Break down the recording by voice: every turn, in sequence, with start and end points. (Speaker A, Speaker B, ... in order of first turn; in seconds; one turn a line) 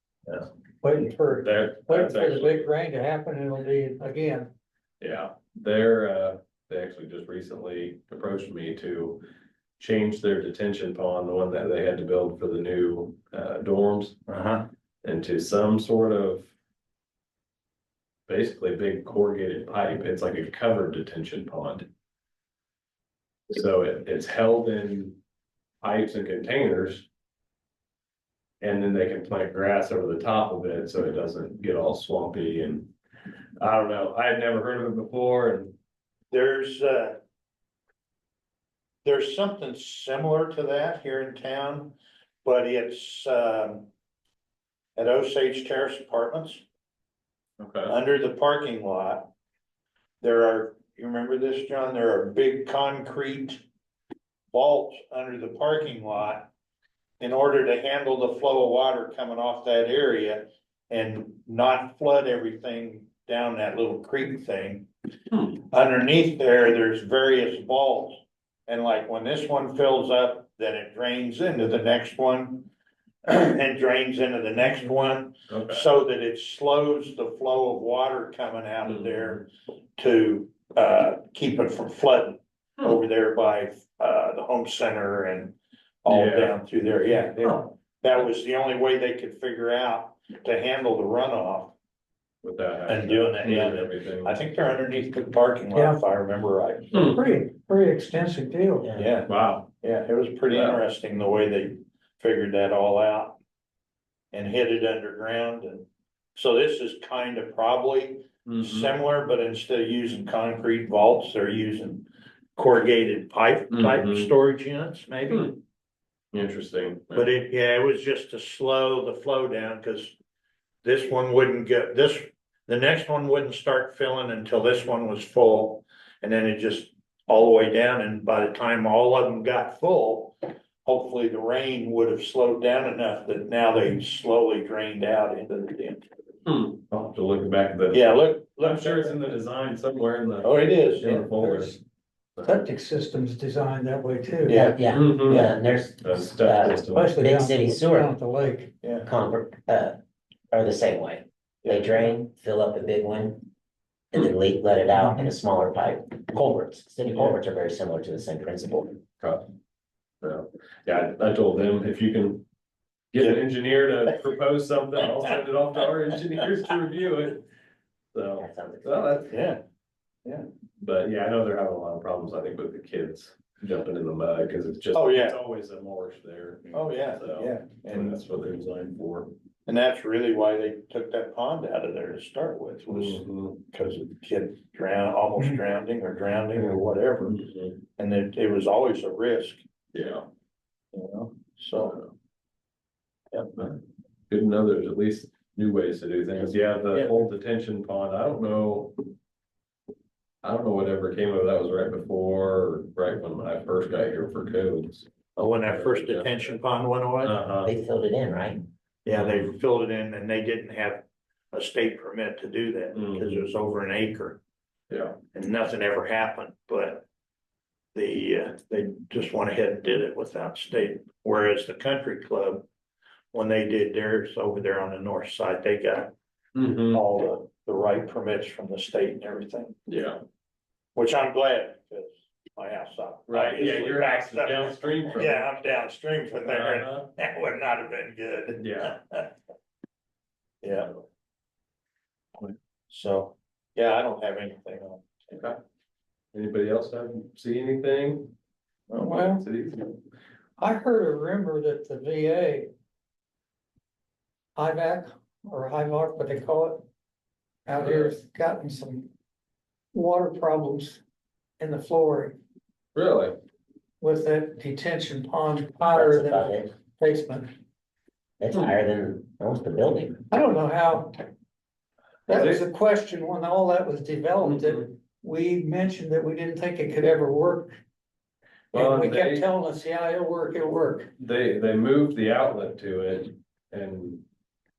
Speaker A: 0.8-4.5
Speaker B: 1.4-2.7
Speaker B: 5.0-9.2
Speaker B: 9.8-14.2
Speaker C: 14.3-14.7
Speaker B: 15.0-16.5
Speaker B: 18.3-21.9
Speaker B: 23.5-25.2
Speaker B: 25.8-27.1
Speaker B: 28.6-32.9
Speaker B: 33.6-35.8
Speaker C: 36.3-37.2
Speaker C: 39.0-43.9
Speaker C: 45.0-46.6
Speaker B: 47.6-48.0
Speaker C: 47.9-49.3
Speaker C: 50.2-53.6
Speaker C: 54.5-56.5
Speaker C: 57.2-64.9
Speaker C: 65.5-72.7
Speaker C: 73.2-91.7
Speaker B: 75.5-75.9
Speaker B: 78.8-79.4
Speaker B: 86.1-86.6
Speaker B: 92.4-94.4
Speaker C: 92.9-97.2
Speaker A: 95.8-96.0
Speaker B: 96.9-97.2
Speaker A: 97.1-98.9
Speaker D: 98.8-99.2
Speaker C: 99.0-103.4
Speaker B: 99.3-99.7
Speaker B: 100.5-100.8
Speaker C: 104.3-115.5
Speaker B: 108.5-108.9
Speaker B: 113.7-114.3
Speaker B: 115.3-115.6
Speaker B: 116.3-117.3
Speaker C: 117.2-120.2
Speaker C: 120.8-136.1
Speaker B: 136.5-141.8
Speaker C: 137.9-139.2
Speaker C: 140.4-141.2
Speaker A: 141.1-141.8
Speaker A: 142.4-144.7
Speaker C: 144.5-145.5
Speaker D: 144.5-148.1
Speaker B: 144.9-147.2
Speaker A: 146.9-148.7
Speaker C: 148.8-149.1
Speaker D: 149.1-150.0
Speaker D: 150.5-153.4
Speaker C: 151.6-152.0
Speaker D: 154.1-159.0
Speaker B: 157.1-157.3
Speaker B: 159.2-159.5
Speaker B: 160.2-162.4
Speaker B: 163.1-167.4
Speaker B: 168.1-169.3
Speaker D: 168.4-169.4
Speaker C: 169.3-169.6
Speaker B: 170.8-179.3
Speaker C: 174.9-175.4
Speaker C: 176.7-178.2
Speaker C: 179.7-187.4
Speaker B: 182.9-183.6
Speaker B: 186.5-187.8
Speaker C: 188.0-189.6
Speaker B: 189.9-190.2
Speaker C: 190.9-192.0
Speaker B: 191.8-192.1
Speaker B: 193.6-199.0
Speaker B: 200.4-205.1
Speaker C: 205.4-207.3
Speaker B: 205.6-206.6
Speaker B: 207.2-207.7
Speaker D: 207.7-208.6
Speaker C: 209.1-214.4
Speaker B: 209.1-209.6
Speaker B: 212.9-213.5
Speaker B: 214.9-215.2
Speaker C: 215.3-217.1
Speaker C: 217.9-222.6
Speaker C: 223.3-226.1
Speaker B: 226.6-227.0
Speaker C: 226.9-229.8
Speaker B: 229.9-230.2
Speaker C: 231.0-239.3
Speaker B: 233.3-235.5
Speaker B: 236.4-237.1
Speaker B: 238.6-239.0
Speaker C: 240.6-240.9
Speaker B: 240.8-241.0
Speaker C: 242.9-245.1
Speaker B: 245.3-245.6
Speaker B: 246.3-248.3
Speaker C: 248.9-249.2
Speaker A: 249.0-249.4
Speaker B: 249.4-249.9
Speaker A: 250.6-252.7
Speaker A: 254.6-256.9
Speaker A: 257.7-259.1
Speaker B: 257.8-258.1
Speaker A: 259.9-261.0
Speaker A: 261.6-262.4
Speaker B: 262.9-263.4
Speaker A: 264.0-267.5
Speaker D: 265.9-266.7
Speaker D: 268.4-270.2
Speaker A: 270.3-271.2
Speaker A: 272.3-277.7
Speaker B: 272.3-272.6
Speaker B: 274.4-274.9
Speaker B: 278.7-279.5
Speaker A: 278.7-281.1
Speaker B: 281.2-284.2